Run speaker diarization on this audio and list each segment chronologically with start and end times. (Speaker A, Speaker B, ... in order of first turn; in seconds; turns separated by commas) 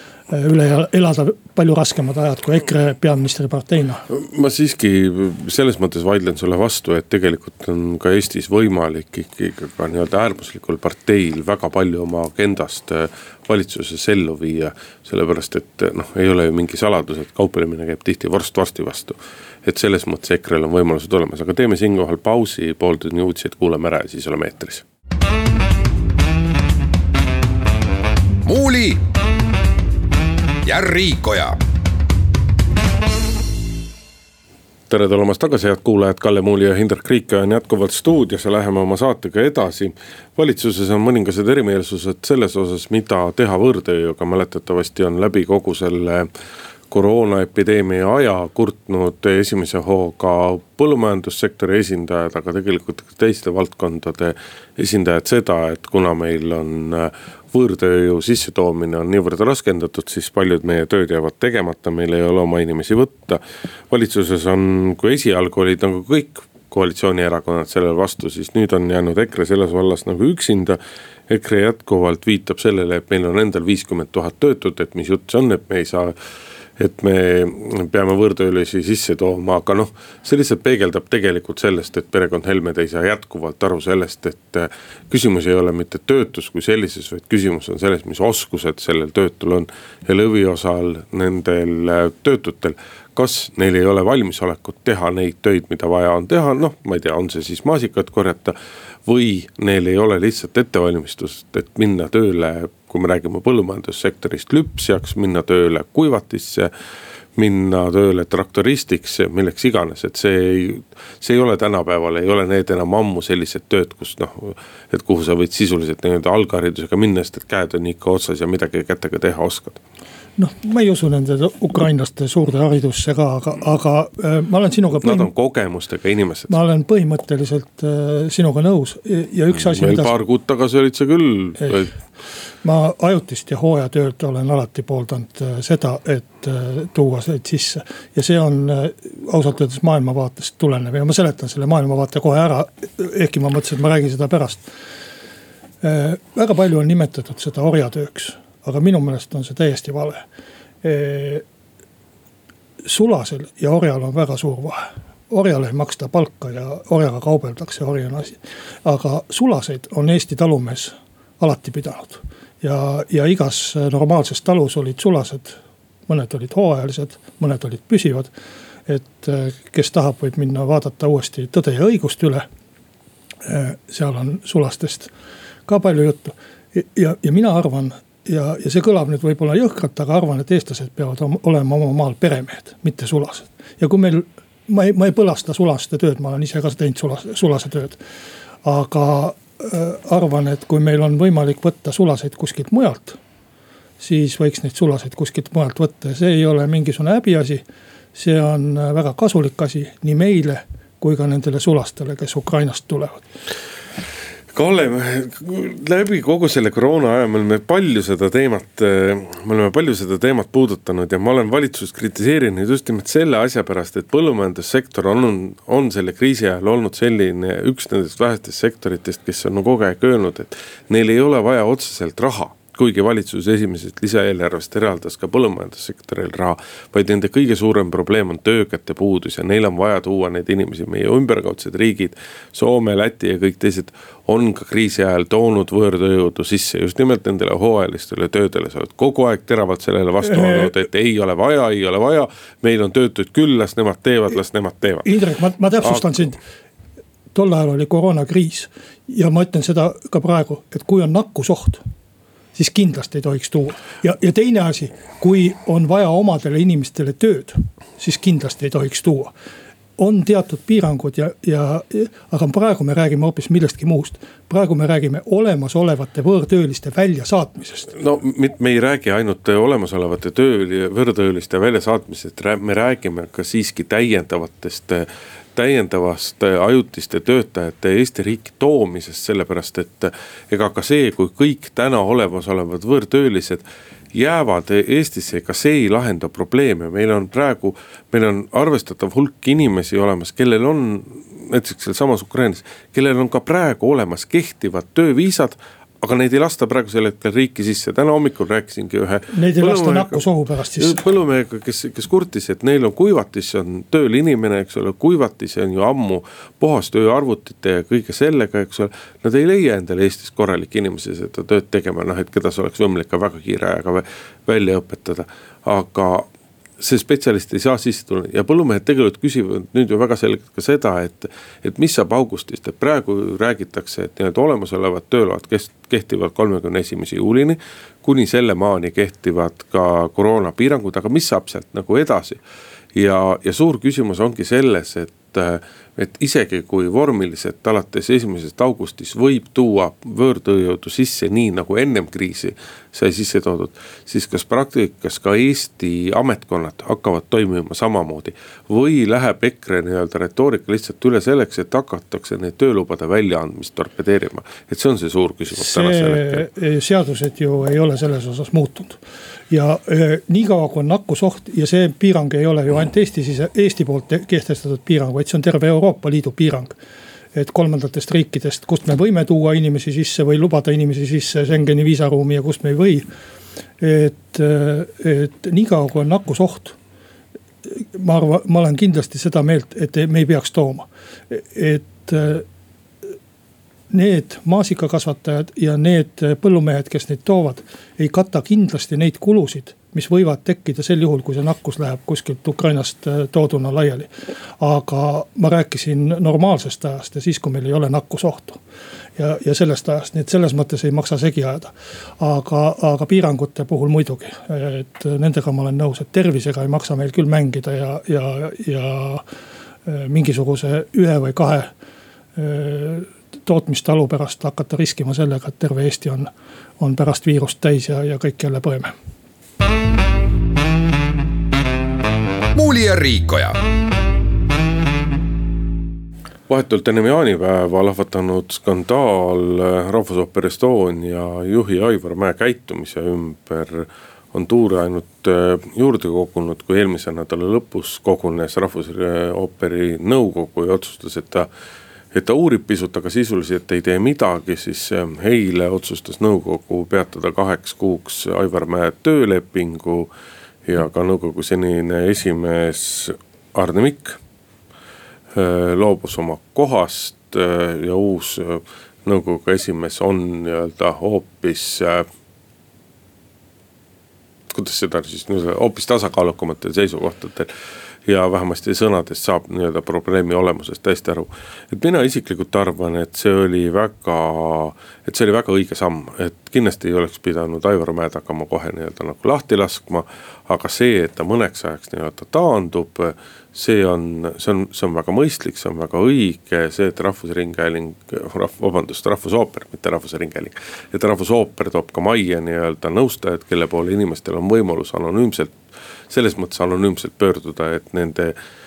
Speaker A: 0.3-4.0, Speaker B: 4.1-24.8, Speaker C: 28.4-29.0, Speaker C: 30.6-31.6, Speaker B: 34.9-46.3, Speaker B: 46.9-76.1, Speaker B: 76.8-106.7, Speaker B: 107.3-119.8, Speaker A: 120.4-125.3, Speaker B: 125.0-126.5, Speaker A: 126.5-130.1, Speaker B: 129.5-131.9, Speaker A: 132.6-144.7, Speaker A: 145.8-150.2, Speaker A: 150.8-151.4, Speaker A: 152.8-168.3, Speaker A: 168.9-172.4, Speaker A: 173.4-175.1, Speaker A: 175.7-188.0, Speaker A: 188.6-193.2, Speaker A: 194.0-197.6, Speaker A: 198.1-203.2, Speaker B: 204.5-245.1, Speaker A: 240.2-240.7, Speaker A: 245.0-246.4, Speaker B: 245.8-246.1, Speaker A: 247.3-251.8, Speaker A: 252.5-259.3, Speaker A: 260.0-267.9, Speaker B: 267.9-300.2, Speaker A: 299.3-301.0, Speaker B: 300.8-332.4, Speaker B: 332.9-356.4, Speaker A: 355.5-359.0, Speaker A: 359.5-366.8, Speaker A: 367.3-373.1, Speaker A: 373.8-376.8, Speaker A: 377.6-382.4, Speaker A: 383.9-394.1, Speaker A: 394.6-398.6, Speaker A: 399.2-409.2, Speaker A: 409.9-411.7, Speaker A: 412.4-416.3, Speaker A: 416.8-418.9, Speaker C: 422.5-423.6, Speaker B: 426.5-441.5, Speaker B: 442.1-450.1, Speaker B: 450.6-454.2, Speaker B: 455.3-462.1, Speaker B: 464.5-467.5, Speaker B: 468.0-495.6, Speaker B: 496.1-498.3